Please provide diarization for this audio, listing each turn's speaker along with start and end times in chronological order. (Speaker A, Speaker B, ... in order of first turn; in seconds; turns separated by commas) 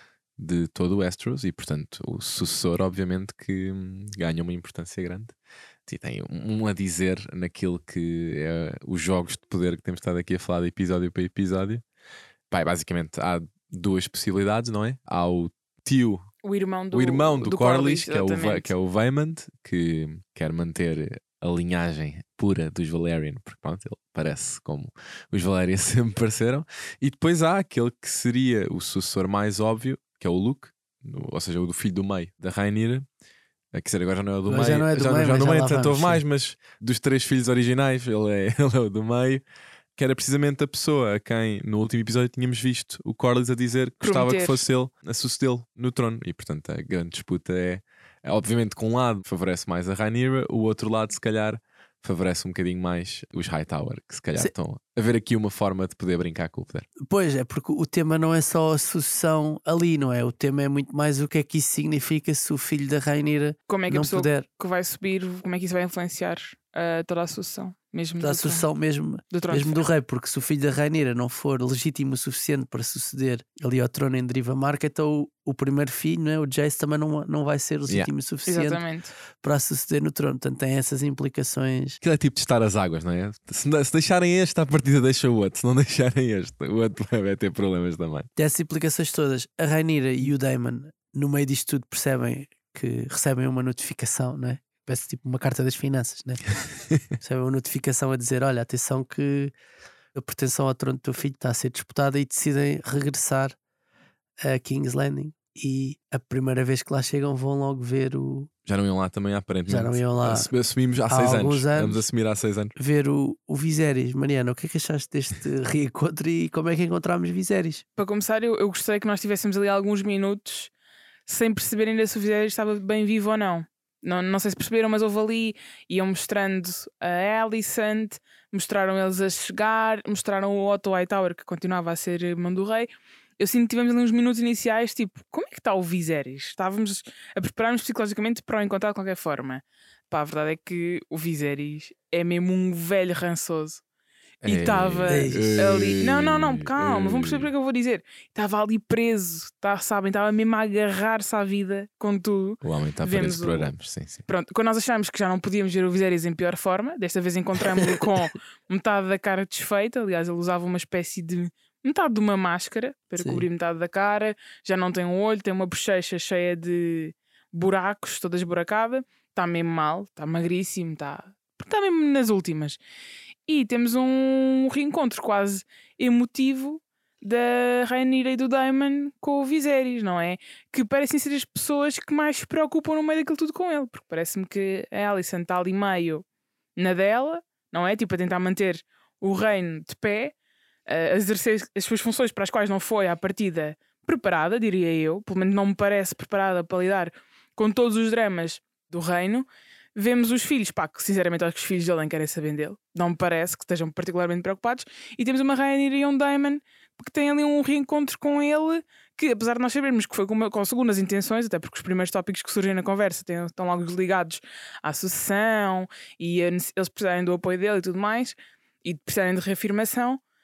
Speaker A: 0.4-5.3, Speaker A: 5.9-11.8, Speaker A: 12.5-16.3, Speaker B: 16.4-18.7, Speaker A: 16.9-33.1, Speaker A: 33.7-39.4, Speaker C: 34.5-36.2, Speaker A: 40.0-56.9, Speaker B: 44.0-44.6, Speaker C: 57.0-64.5, Speaker B: 63.7-68.6, Speaker C: 68.2-78.8, Speaker B: 69.3-69.8, Speaker B: 78.5-79.1, Speaker C: 79.3-82.0, Speaker A: 82.0-88.3, Speaker C: 88.4-96.5, Speaker C: 97.1-99.5, Speaker C: 100.1-103.5, Speaker C: 104.4-108.5, Speaker A: 108.7-112.7, Speaker C: 109.7-110.5, Speaker C: 111.1-112.0, Speaker C: 112.8-117.8, Speaker B: 118.0-120.7, Speaker B: 121.3-143.8, Speaker A: 144.4-147.5, Speaker B: 144.4-153.7, Speaker C: 145.1-145.7, Speaker A: 152.6-154.2, Speaker B: 154.3-172.8, Speaker C: 163.2-163.5, Speaker B: 173.5-186.2, Speaker B: 186.8-190.3, Speaker B: 190.9-220.2